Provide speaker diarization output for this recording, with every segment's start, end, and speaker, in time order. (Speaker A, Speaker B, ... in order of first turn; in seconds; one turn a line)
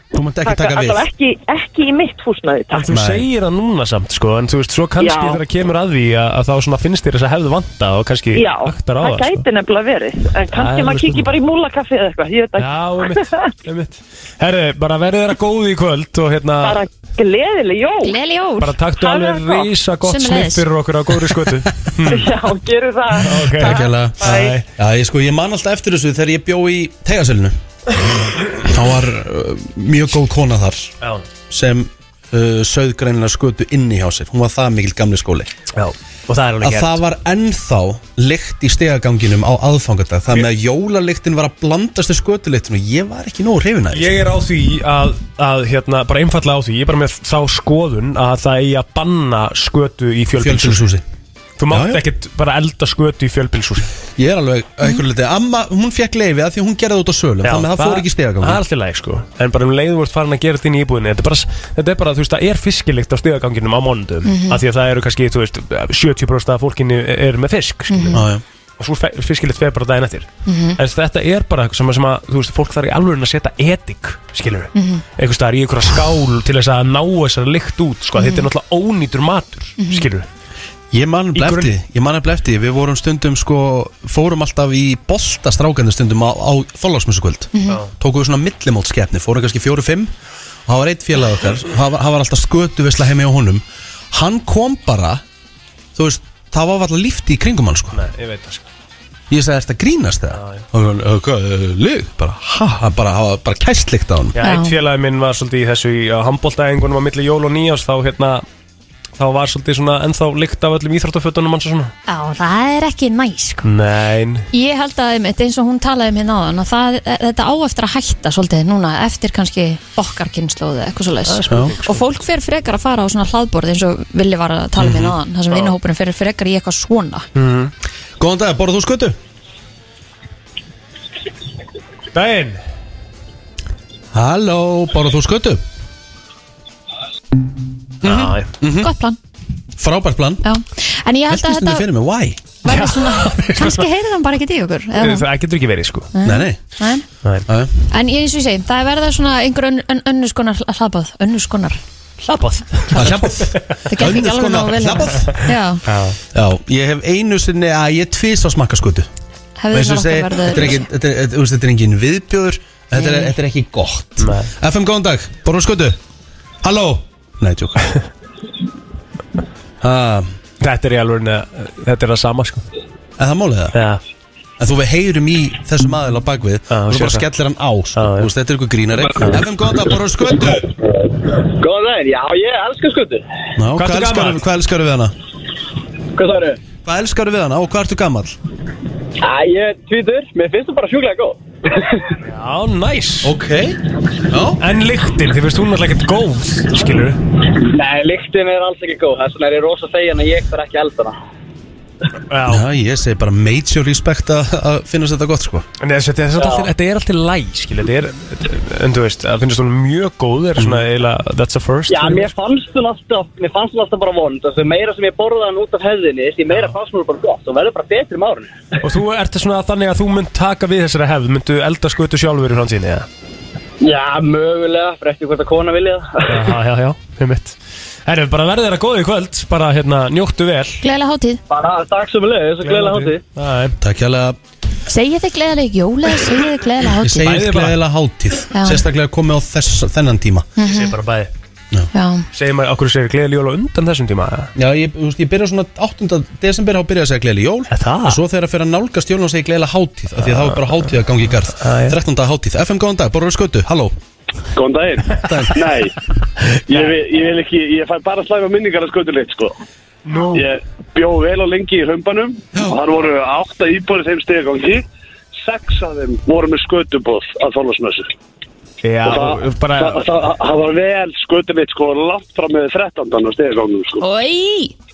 Speaker A: 0.1-1.1
Speaker B: 0.4-2.9
Speaker C: 2.7-9.4
Speaker A: 2.9-3.2
Speaker B: 5.0-5.4
Speaker B: 8.3-13.2
Speaker C: 10.5-11.3
Speaker C: 12.6-16.8
Speaker B: 16.6-18.1
Speaker D: 18.0-18.7
Speaker C: 18.6-22.4
Speaker B: 19.0-19.7
Speaker D: 20.0-20.6
Speaker B: 22.0-24.5
Speaker C: 23.2-24.6
Speaker A: 23.6-27.6
Speaker A: 28.5-30.9
Speaker A: 31.5-35.5
Speaker C: 35.7-37.0
Speaker A: 36.6-44.2
Speaker C: 43.9-50.8
Speaker A: 50.4-51.0
Speaker C: 51.6-53.9
Speaker A: 51.7-52.0
Speaker A: 54.2-58.6
Speaker C: 57.4-68.2
Speaker D: 64.2-64.6
Speaker D: 67.9-68.2
Speaker A: 68.1-68.4
Speaker C: 68.8-80.2
Speaker D: 70.5-70.8
Speaker D: 74.7-75.0
Speaker D: 78.2-78.5
Speaker D: 79.8-80.0
Speaker A: 80.9-90.1
Speaker C: 81.3-81.7
Speaker D: 87.5-87.8
Speaker A: 90.7-95.2
Speaker A: 96.0-98.0
Speaker C: 97.9-98.7
Speaker A: 99.3-104.4
Speaker C: 100.3-100.6
Speaker C: 104.3-108.4
Speaker D: 104.4-104.7
Speaker C: 109.2-111.9
Speaker D: 112.1-113.7
Speaker C: 113.6-114.5
Speaker D: 114.5-127.2
Speaker C: 121.3-122.0
Speaker A: 124.8-125.1
Speaker C: 127.3-127.7
Speaker A: 128.2-129.2
Speaker C: 132.1-132.6
Speaker A: 134.1-135.6
Speaker A: 138.0-138.9
Speaker C: 138.0-138.5
Speaker D: 138.7-139.2
Speaker A: 139.8-140.4
Speaker D: 140.4-141.8
Speaker A: 141.3-142.4
Speaker D: 142.6-145.2
Speaker C: 142.7-143.9
Speaker C: 145.0-146.1
Speaker D: 146.1-147.0
Speaker A: 146.2-146.6
Speaker D: 147.9-151.8
Speaker C: 152.2-153.6
Speaker A: 152.9-155.3
Speaker D: 153.9-155.8
Speaker C: 155.8-156.2
Speaker A: 156.3-159.1
Speaker D: 159.6-160.8
Speaker A: 159.7-166.0
Speaker D: 163.0-163.3
Speaker C: 164.2-164.5
Speaker A: 166.6-167.9
Speaker A: 169.8-170.3
Speaker C: 170.6-172.6
Speaker A: 173.2-173.8
Speaker C: 173.7-174.0
Speaker A: 174.6-180.7
Speaker C: 176.7-177.2
Speaker C: 177.9-178.3
Speaker C: 179.2-179.4
Speaker E: 181.6-183.2
Speaker A: 183.6-185.1
Speaker C: 183.7-184.4
Speaker E: 186.2-186.6
Speaker A: 186.8-188.3
Speaker E: 189.2-191.4
Speaker C: 192.2-193.3
Speaker A: 193.2-193.8
Speaker A: 194.3-194.6
Speaker C: 194.6-197.2
Speaker E: 197.7-201.1
Speaker C: 202.3-202.6
Speaker A: 202.4-205.7
Speaker C: 205.8-212.3
Speaker A: 210.6-210.8
Speaker E: 211.9-218.5
Speaker C: 216.5-216.8
Speaker C: 218.8-223.1
Speaker E: 223.8-226.5
Speaker C: 226.2-230.8
Speaker D: 230.8-231.4
Speaker E: 231.5-233.2
Speaker C: 232.6-233.8
Speaker A: 233.8-234.4
Speaker D: 234.9-237.4
Speaker A: 237.0-240.5
Speaker C: 237.2-237.8
Speaker D: 238.5-238.8
Speaker D: 240.6-240.9
Speaker C: 240.6-241.3
Speaker D: 241.9-242.2
Speaker C: 242.3-244.5
Speaker A: 244.6-253.9
Speaker C: 247.7-248.2
Speaker C: 250.2-250.9
Speaker C: 251.6-252.0
Speaker F: 254.5-255.9
Speaker A: 255.2-255.6
Speaker F: 256.7-259.6
Speaker C: 256.7-257.0
Speaker C: 260.1-260.4
Speaker F: 260.3-264.8
Speaker F: 265.4-268.1
Speaker C: 268.8-270.1
Speaker F: 269.0-274.0
Speaker D: 274.0-274.7